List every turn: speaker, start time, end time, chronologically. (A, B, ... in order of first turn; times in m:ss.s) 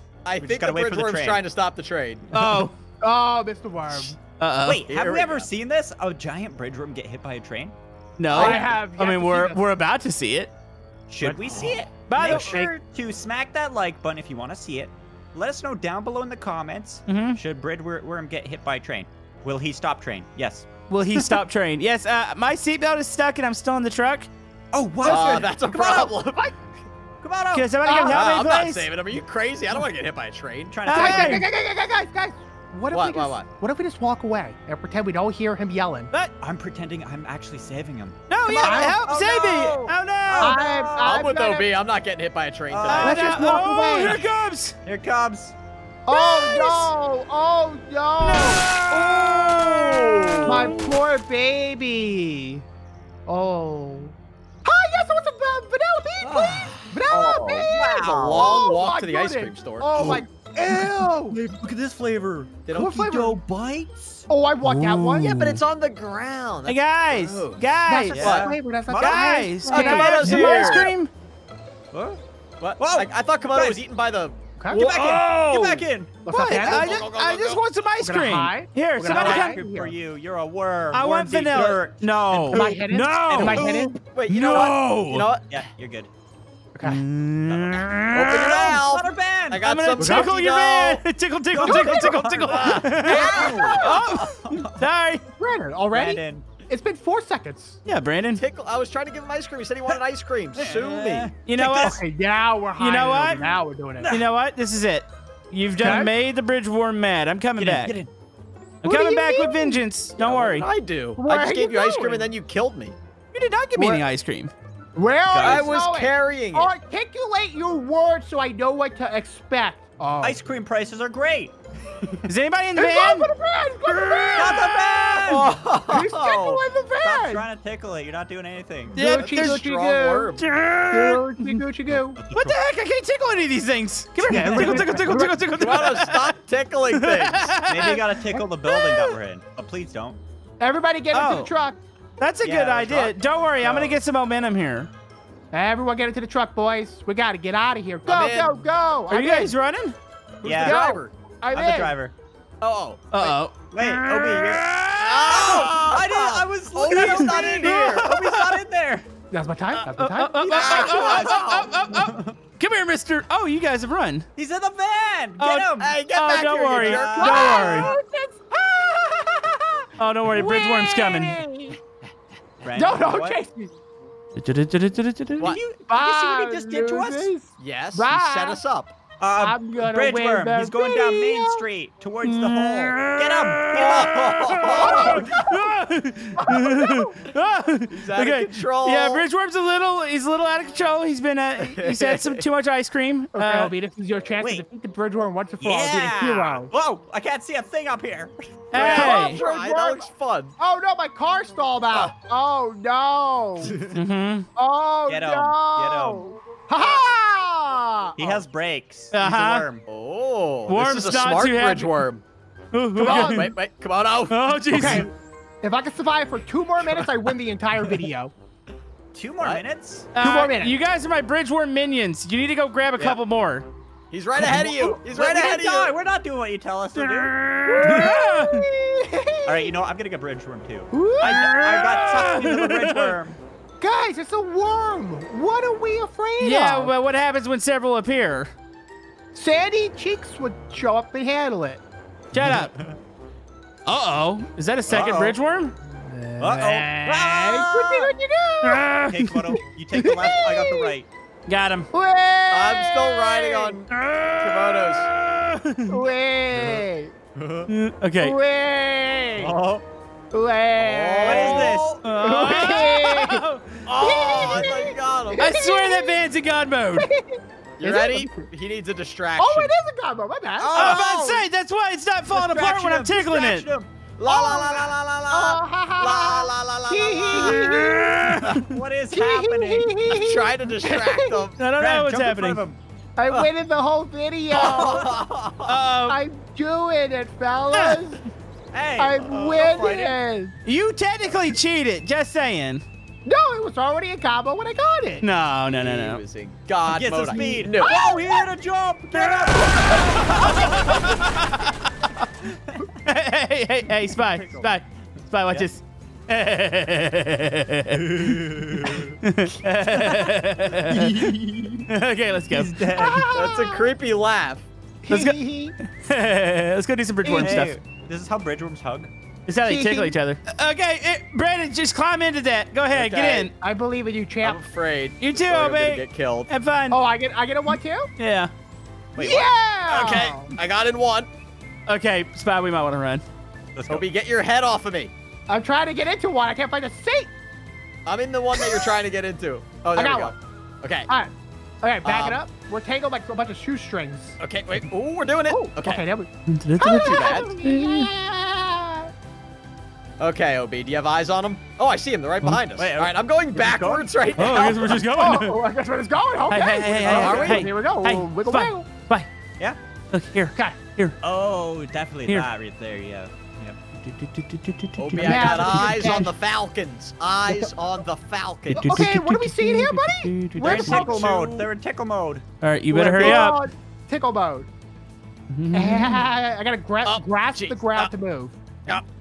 0:00.2-0:02.3 A
0:00.4-0:01.4 B
0:02.3-0:02.7 C
0:03.0-0:04.2 D
0:04.4-0:04.8 C
0:04.6-0:07.8 B
0:04.9-0:05.5 A
0:08.2-0:10.5 C
0:08.3-0:08.6 A
0:08.3-0:09.6 D
0:11.1-0:21.4 B
0:11.2-0:11.8 A
0:12.0-0:12.7 C
0:12.3-0:12.7 D
0:17.1-0:17.4 C
0:20.9-0:24.3 C
0:24.7-0:26.1 B
0:25.0-0:25.5 D
0:25.0-0:26.5 A
0:27.2-0:27.7 B
0:27.5-0:28.9 C
0:27.8-0:28.2 D
0:28.1-0:30.8 A
0:30.7-0:31.4 B
0:30.9-0:31.4 C
0:30.9-0:36.1 D
0:32.9-0:33.5 A
0:36.4-0:41.2 B
0:38.3-0:40.6 C
0:38.6-0:39.1 D
0:40.4-0:41.7 D
0:41.0-0:43.4 A
0:42.7-0:43.4 B
0:42.9-0:44.2 D
0:43.1-0:44.8 C
0:44.8-0:45.6 B
0:46.1-0:49.4 D
0:48.2-0:51.0 B
0:49.2-0:50.8 A
0:50.4-0:52.6 D
0:53.2-1:01.4 D
0:56.2-0:58.5 B
0:57.1-1:00.2 A
1:00.0-1:04.2 B
1:02.7-1:03.0 A
1:02.7-1:03.4 D
1:04.3-1:05.3 D
1:04.6-1:05.6 C
1:05.2-1:08.5 A
1:06.7-1:08.2 C
1:07.9-1:10.8 D
1:08.1-1:09.6 B
1:09.0-1:11.1 C
1:09.7-1:10.9 A
1:11.9-1:12.2 B
1:12.6-1:15.3 A
1:12.8-1:13.8 B
1:14.6-1:14.9 D
1:14.7-1:16.2 B
1:14.9-1:15.7 C
1:16.2-1:17.0 D
1:16.3-1:19.6 C
1:16.4-1:17.6 A
1:18.0-1:19.9 D
1:19.1-1:23.7 B
1:20.9-1:25.3 C
1:22.5-1:23.9 D
1:24.1-1:25.4 A
1:25.5-1:26.1 B
1:26.7-1:27.0 D
1:26.8-1:28.5 C
1:27.5-1:29.6 B
1:28.1-1:31.0 A
1:29.6-1:35.2 C
1:30.0-1:30.3 D
1:31.5-1:34.8 B
1:31.6-1:31.9 D
1:31.6-1:34.0 A
1:33.4-1:33.7 D
1:35.4-1:37.8 D
1:35.9-1:36.5 B
1:37.8-1:38.4 C
1:38.3-1:41.3 A
1:40.6-1:42.0 B
1:41.4-1:41.9 C
1:41.8-1:44.2 D
1:42.8-1:43.4 C
1:43.1-1:44.3 B
1:44.1-1:48.0 C
1:45.8-1:46.1 D
1:47.6-1:48.1 B
1:48.8-1:49.8 D
1:48.8-1:50.7 C
1:50.2-1:53.0 A
1:51.2-1:52.3 D
1:53.3-1:54.5 C
1:53.8-1:54.0 D
1:54.9-2:00.4 D
1:55.3-1:55.7 B
1:55.3-1:56.7 A
2:00.2-2:01.5 B
2:02.3-2:03.3 C
2:02.8-2:05.0 D
2:04.3-2:05.6 B
2:05.2-2:06.5 A
2:05.9-2:07.4 D
2:06.3-2:09.1 B
2:08.9-2:10.3 D
2:08.9-2:09.6 C
2:09.1-2:10.4 A
2:10.4-2:11.6 C
2:10.9-2:12.2 D
2:11.9-2:12.6 B
2:12.3-2:16.3 C
2:14.2-2:15.4 D
2:14.4-2:14.9 B
2:15.6-2:17.5 A
2:16.9-2:18.0 C
2:17.6-2:20.2 B
2:18.7-2:19.0 C
2:20.6-2:21.8 D
2:21.1-2:21.5 C
2:22.2-2:24.9 C
2:22.4-2:24.0 B
2:25.5-2:29.5 D
2:28.1-2:28.5 A
2:29.1-2:30.0 C
2:30.4-2:31.1 A
2:30.4-2:30.8 B
2:30.6-2:31.9 D
2:31.5-2:32.1 B
2:32.6-2:33.4 A
2:33.1-2:35.3 C
2:33.7-2:34.7 B
2:35.0-2:38.1 A
2:35.2-2:39.0 B
2:36.9-2:38.5 C
2:39.3-2:40.5 D
2:39.7-2:42.4 B
2:39.9-2:44.2 C
2:40.5-2:41.8 A
2:44.4-2:46.0 B
2:45.4-2:47.9 C
2:45.8-2:47.9 A
2:46.7-2:49.5 D
2:46.8-2:47.4 B
2:50.0-2:51.4 C
2:50.3-2:51.8 D
2:52.6-2:53.4 B
2:52.7-2:53.7 D
2:54.3-2:55.5 C
2:55.4-2:57.3 B
2:55.9-2:58.6 D
2:57.6-2:58.9 A
2:59.2-3:05.2 B
2:59.4-3:01.6 D
3:02.2-3:03.8 C
3:03.7-3:05.3 A
3:04.5-3:13.7 C
3:04.8-3:05.5 D
3:06.4-3:07.1 D
3:07.9-3:09.2 A
3:11.6-3:12.4 A
3:13.3-3:16.7 D
3:14.4-3:14.6 B
3:15.6-3:18.7 B
3:18.7-3:19.4 C
3:18.7-3:20.6 A
3:18.7-3:20.1 D
3:20.6-3:23.7 D
3:23.9-3:24.5 C
3:24.6-3:28.4 D
3:25.1-3:26.2 B
3:28.2-3:29.8 B
3:29.1-3:29.6 C
3:29.9-3:32.2 A
3:30.7-3:32.0 C
3:32.7-3:33.5 C
3:33.0-3:33.5 D
3:33.0-3:34.5 A
3:34.3-3:35.1 C
3:34.7-3:38.3 D
3:39.1-3:40.2 B
3:40.1-3:43.7 C
3:40.2-3:40.8 D
3:44.1-3:46.0 A
3:44.4-3:48.2 B
3:47.1-3:48.6 C
3:47.7-3:49.7 D
3:49.4-3:53.4 B
3:50.9-3:51.4 D
3:51.2-3:53.1 C
3:53.8-3:56.9 D
3:56.4-3:58.5 C
3:59.3-4:01.8 D
4:02.3-4:02.7 C
4:02.4-4:03.0 B
4:03.8-4:05.7 C
4:04.9-4:05.4 B
4:06.0-4:08.9 D
4:06.4-4:08.2 B
4:08.6-4:09.3 C
4:09.0-4:11.1 B
4:09.6-4:10.9 D
4:11.5-4:11.9 C
4:11.9-4:13.8 D
4:12.5-4:15.1 A
4:13.9-4:16.0 C
4:15.9-4:17.1 D
4:16.6-4:16.8 B
4:17.3-4:17.7 B
4:17.7-4:18.3 C
4:18.2-4:19.6 D
4:19.4-4:19.8 B
4:20.3-4:23.4 D
4:20.8-4:22.0 A
4:21.2-4:22.7 B
4:22.0-4:23.9 C
4:23.8-4:25.5 A
4:24.0-4:26.2 D
4:25.4-4:27.1 C
4:27.0-4:28.5 D
4:27.8-4:29.7 A
4:29.4-4:30.8 D
4:30.6-4:31.4 A
4:30.6-4:31.3 B
4:30.7-4:33.6 C
4:32.3-4:34.0 B
4:34.2-4:38.6 A
4:34.2-4:38.2 D
4:37.9-4:38.6 C
4:38.6-4:40.0 B
4:39.1-4:41.4 D
4:40.1-4:41.6 A
4:41.6-4:42.6 C
4:41.8-4:42.8 B
4:43.2-4:45.2 D
4:44.5-4:45.8 A
4:45.6-4:46.2 C
4:46.1-4:48.2 D
4:47.7-4:48.0 C
4:48.7-4:50.1 B
4:49.0-4:50.5 D
4:50.6-4:52.8 C
4:53.2-4:55.2 D
4:55.2-4:56.2 C
4:55.7-4:57.9 A
4:56.9-5:01.1 B
4:57.3-4:58.5 D
4:59.1-5:02.2 C
5:02.5-5:02.7 B
5:03.0-5:08.2 C
5:04.1-5:04.7 B
5:08.0-5:09.2 B
5:08.8-5:11.3 C
5:09.9-5:11.9 B
5:11.9-5:12.7 C
5:12.5-5:13.3 B
5:12.9-5:13.9 D
5:13.1-5:14.7 A
5:15.0-5:15.7 D
5:15.1-5:17.8 C
5:17.2-5:19.1 B
5:19.4-5:23.5 C
5:19.6-5:20.2 D
5:22.9-5:23.5 A
5:23.5-5:24.6 D
5:24.4-5:26.5 A
5:25.2-5:27.0 C
5:26.9-5:28.1 D
5:28.2-5:28.5 C
5:29.1-5:30.3 B
5:29.2-5:30.5 D
5:29.9-5:31.3 A
5:31.9-5:33.2 C
5:33.7-5:34.0 B
5:33.9-5:35.1 A
5:35.5-5:37.3 D
5:38.0-5:41.1 A
5:38.5-5:38.9 D
5:39.9-5:40.3 D
5:41.1-5:44.4 D
5:42.0-5:42.4 A
5:44.4-5:46.0 A
5:45.5-5:49.1 D
5:46.5-5:48.1 C
5:46.8-5:47.5 A
5:50.2-5:55.0 A
5:52.7-5:54.1 B
5:54.3-5:55.6 C
5:55.0-5:58.9 D
5:56.5-5:59.3 C
5:57.0-5:57.6 B
5:57.0-5:57.6 A
6:00.1-6:01.1 C
6:01.2-6:03.8 B
6:03.9-6:06.2 C
6:05.0-6:09.1 A
6:05.2-6:06.3 D
6:08.7-6:11.5 D
6:08.7-6:11.1 C
6:10.5-6:12.4 B
6:10.9-6:11.6 A
6:12.6-6:13.6 C
6:12.9-6:14.7 D
6:13.1-6:13.5 A
6:15.5-6:16.2 C
6:15.7-6:18.6 D
6:17.0-6:18.1 A